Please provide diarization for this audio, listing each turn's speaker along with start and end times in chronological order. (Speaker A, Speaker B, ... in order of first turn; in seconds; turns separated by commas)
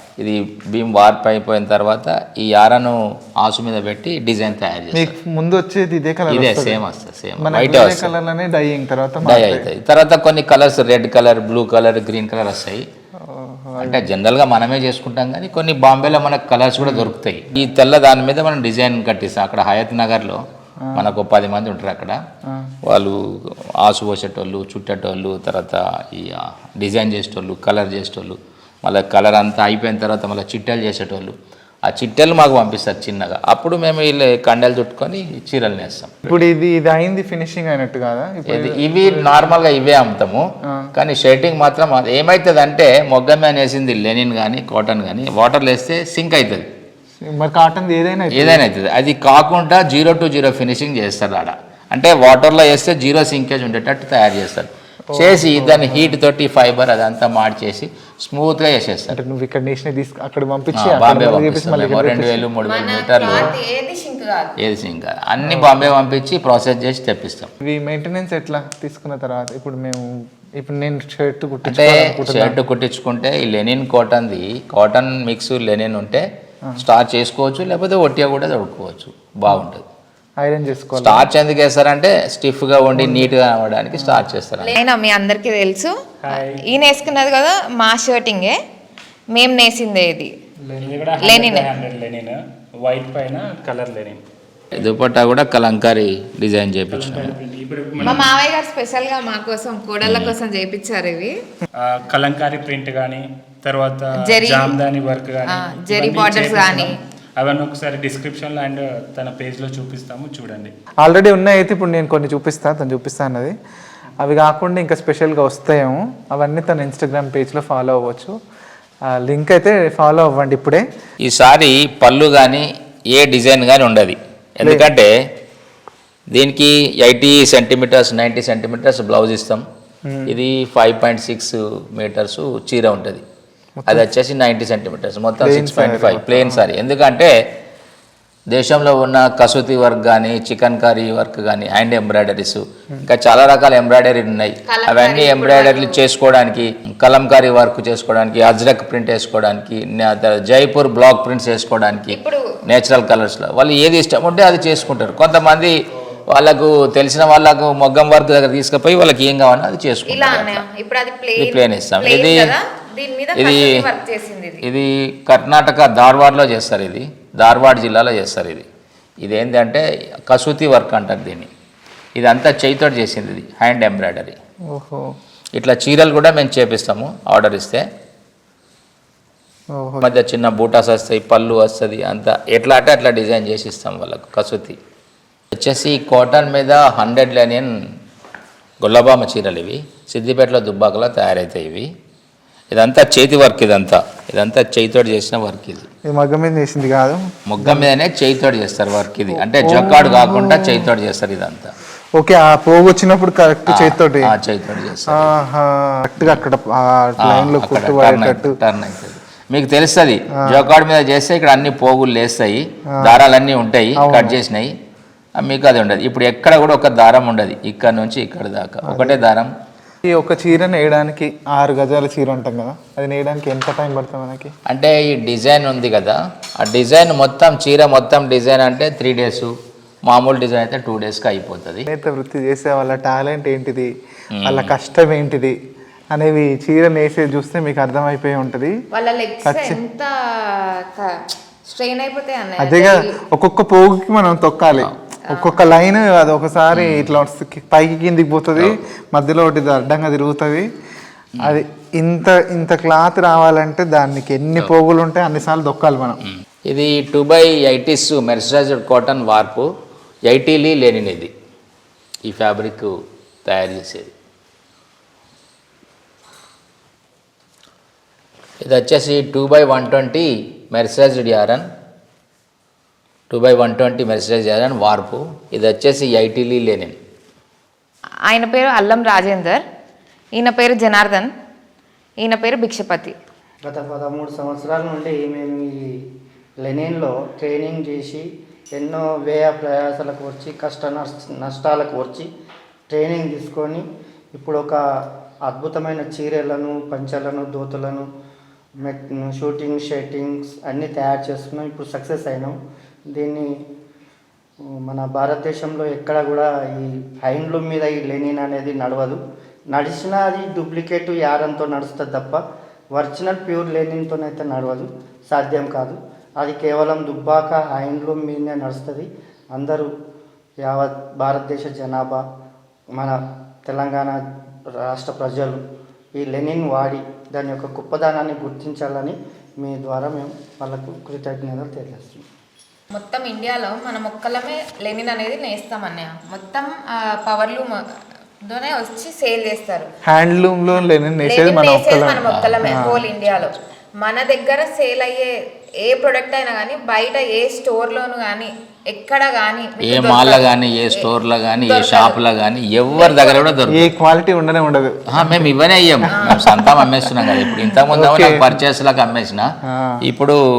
Speaker A: 0.2-5.1, Speaker B: 4.9-6.8, Speaker A: 6.3-8.1, Speaker B: 7.4-9.7, Speaker A: 9.2-12.8, Speaker B: 13.2-14.1, Speaker A: 13.8-20.4, Speaker B: 16.8-17.1, Speaker A: 20.9-22.2, Speaker B: 22.5-22.7, Speaker A: 22.9-23.2, Speaker A: 23.8-31.3, Speaker A: 31.9-36.3, Speaker B: 36.2-39.3, Speaker A: 38.5-40.4, Speaker A: 40.9-46.6, Speaker B: 47.2-48.6, Speaker A: 48.3-59.2, Speaker B: 55.1-56.2, Speaker B: 59.1-62.5, Speaker A: 60.7-63.5, Speaker C: 62.6-64.5, Speaker A: 64.6-67.5, Speaker B: 65.4-65.8, Speaker B: 67.6-70.0, Speaker B: 70.6-72.6, Speaker A: 71.6-76.2, Speaker A: 76.8-79.8, Speaker B: 80.4-81.3, Speaker A: 80.9-84.8, Speaker B: 82.9-83.3, Speaker C: 84.6-88.6, Speaker D: 86.2-86.6, Speaker C: 89.3-90.3, Speaker D: 90.7-94.2, Speaker C: 91.2-91.7, Speaker A: 94.7-97.4, Speaker D: 96.9-98.3, Speaker A: 98.0-98.2, Speaker C: 98.0-101.3, Speaker A: 100.0-100.3, Speaker D: 101.8-110.7, Speaker C: 104.2-104.8, Speaker C: 105.5-106.9, Speaker B: 111.0-113.5, Speaker B: 114.2-118.3, Speaker B: 119.2-120.8, Speaker A: 121.2-125.1, Speaker A: 126.3-129.6, Speaker B: 130.1-130.3, Speaker A: 130.3-133.2, Speaker B: 133.8-134.0, Speaker A: 133.9-137.3, Speaker B: 135.4-136.6, Speaker A: 138.5-155.8, Speaker C: 144.7-146.0, Speaker C: 152.1-152.4, Speaker A: 156.3-160.6, Speaker C: 160.1-164.6, Speaker A: 161.4-162.5, Speaker A: 163.3-163.8, Speaker A: 164.6-168.7, Speaker A: 169.2-171.5, Speaker A: 172.2-174.3, Speaker B: 174.7-175.1, Speaker A: 175.6-177.8, Speaker B: 179.8-180.1, Speaker A: 180.0-184.8, Speaker A: 185.5-187.7, Speaker A: 188.8-191.9, Speaker A: 192.7-195.9, Speaker B: 196.1-197.9, Speaker A: 197.5-201.7, Speaker B: 199.3-200.9, Speaker B: 202.2-204.3, Speaker A: 203.7-205.4, Speaker B: 205.1-208.6, Speaker A: 207.2-214.7, Speaker B: 213.9-214.4, Speaker A: 215.4-219.5, Speaker B: 218.8-219.2, Speaker B: 220.1-224.5, Speaker A: 224.7-229.5, Speaker A: 230.1-231.9, Speaker B: 231.9-233.9, Speaker A: 234.3-234.7, Speaker B: 234.4-235.6, Speaker B: 236.1-238.7, Speaker C: 238.9-241.1, Speaker B: 239.4-239.8, Speaker C: 241.7-243.2, Speaker B: 242.6-250.7, Speaker C: 245.3-245.6, Speaker A: 246.7-247.2, Speaker B: 251.4-256.2, Speaker A: 256.7-259.7, Speaker A: 260.2-261.3, Speaker A: 262.2-262.9, Speaker A: 263.4-264.1, Speaker A: 268.6-271.6, Speaker A: 273.3-276.9, Speaker C: 278.3-279.6, Speaker C: 280.3-281.3, Speaker C: 282.2-283.1, Speaker E: 283.6-285.9, Speaker E: 286.6-292.3, Speaker E: 292.9-294.8, Speaker E: 295.4-298.1, Speaker E: 298.8-302.6, Speaker E: 303.1-303.5, Speaker E: 304.8-309.2, Speaker E: 309.7-312.4, Speaker E: 312.9-319.9, Speaker E: 320.6-322.2, Speaker E: 322.9-324.2, Speaker E: 324.8-325.6, Speaker E: 326.1-332.2, Speaker C: 332.9-337.8, Speaker C: 338.4-339.9, Speaker B: 340.1-343.1, Speaker C: 341.2-351.1, Speaker A: 342.3-342.8, Speaker A: 349.8-353.9, Speaker C: 351.6-352.2, Speaker C: 352.9-353.4, Speaker B: 353.7-355.5, Speaker A: 355.1-359.5, Speaker C: 356.1-356.8, Speaker B: 356.2-356.6, Speaker B: 357.3-358.5, Speaker B: 359.6-360.0, Speaker A: 360.0-360.4